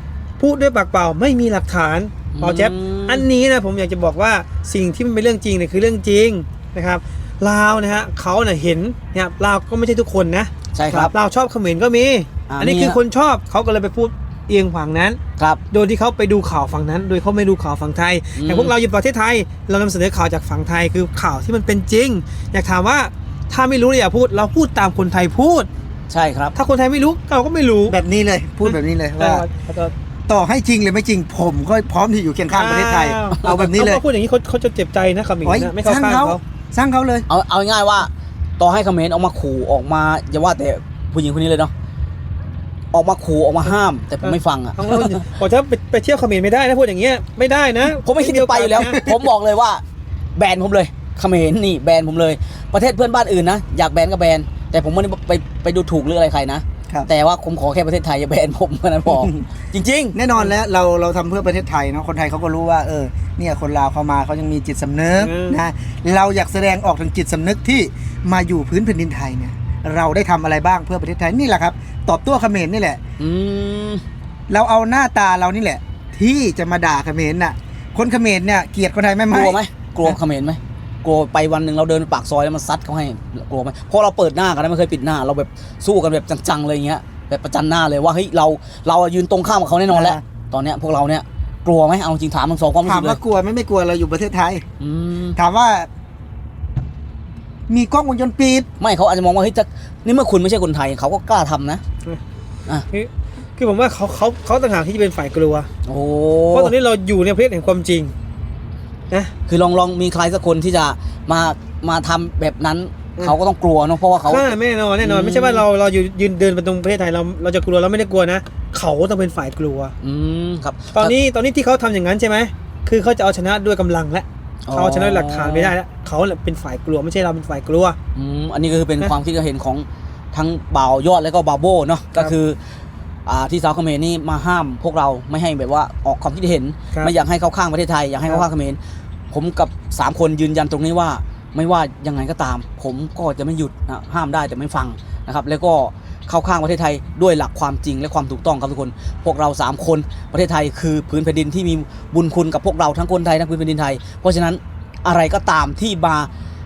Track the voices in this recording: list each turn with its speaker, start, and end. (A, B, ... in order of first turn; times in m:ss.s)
0:00.4-0:15.2 A
0:02.3-0:03.2 B
0:10.7-0:11.1 B
0:12.5-0:13.0 B
0:15.7-0:25.7 A
0:18.4-0:18.7 B
0:26.1-0:26.5 B
0:26.5-0:28.0 A
0:27.9-0:29.4 C
0:28.6-0:29.9 A
0:30.3-0:34.0 C
0:32.5-0:36.4 A
0:35.4-0:37.2 C
0:37.3-0:41.7 B
0:42.9-0:45.2 B
0:44.2-0:49.0 A
0:48.0-0:49.8 B
0:50.3-1:00.2 B
1:00.1-1:13.0 C
1:05.2-1:05.6 A
1:13.2-1:14.0 B
1:14.5-1:20.2 C
1:19.3-1:33.2 B
1:29.9-1:30.2 C
1:32.8-1:34.6 C
1:34.8-1:35.4 B
1:35.4-1:35.9 C
1:37.7-1:38.7 C
1:38.8-1:41.8 B
1:42.9-1:45.7 A
1:45.9-1:46.7 B
1:46.5-1:48.1 A
1:49.5-1:55.6 B
1:54.2-1:59.9 A
2:00.0-2:01.1 B
2:00.9-2:08.0 A
2:04.7-2:05.7 B
2:08.1-2:12.6 B
2:13.2-2:18.8 B
2:19.3-2:36.3 B